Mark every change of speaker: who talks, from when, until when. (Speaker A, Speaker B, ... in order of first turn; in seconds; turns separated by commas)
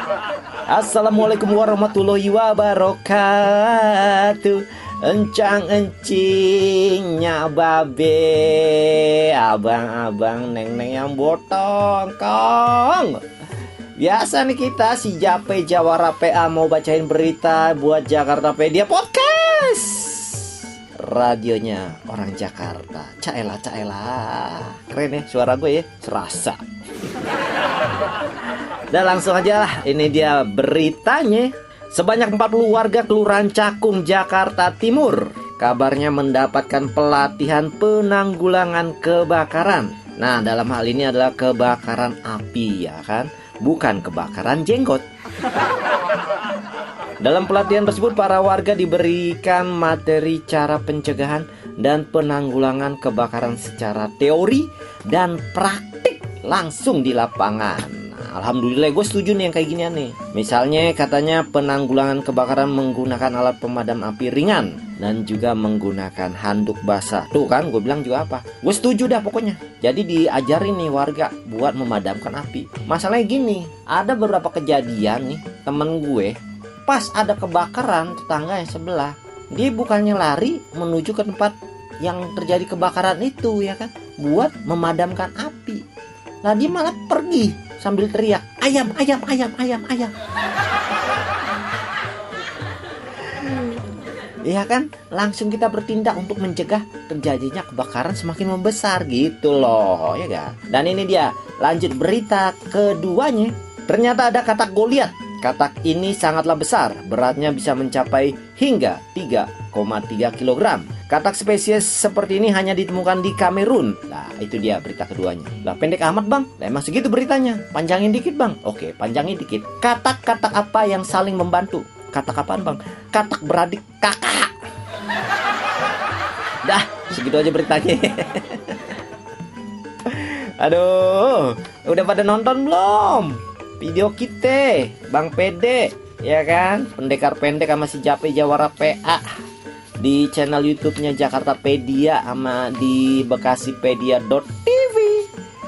Speaker A: 0.7-13.2, Speaker A: 14.0-26.6, Speaker A: 28.9-45.0, Speaker A: 47.2-85.8, Speaker A: 86.4-90.1, Speaker A: 93.5-93.8, Speaker A: 94.4-124.5, Speaker A: 126.6-128.9, Speaker A: 130.0-139.2, Speaker A: 140.0-145.3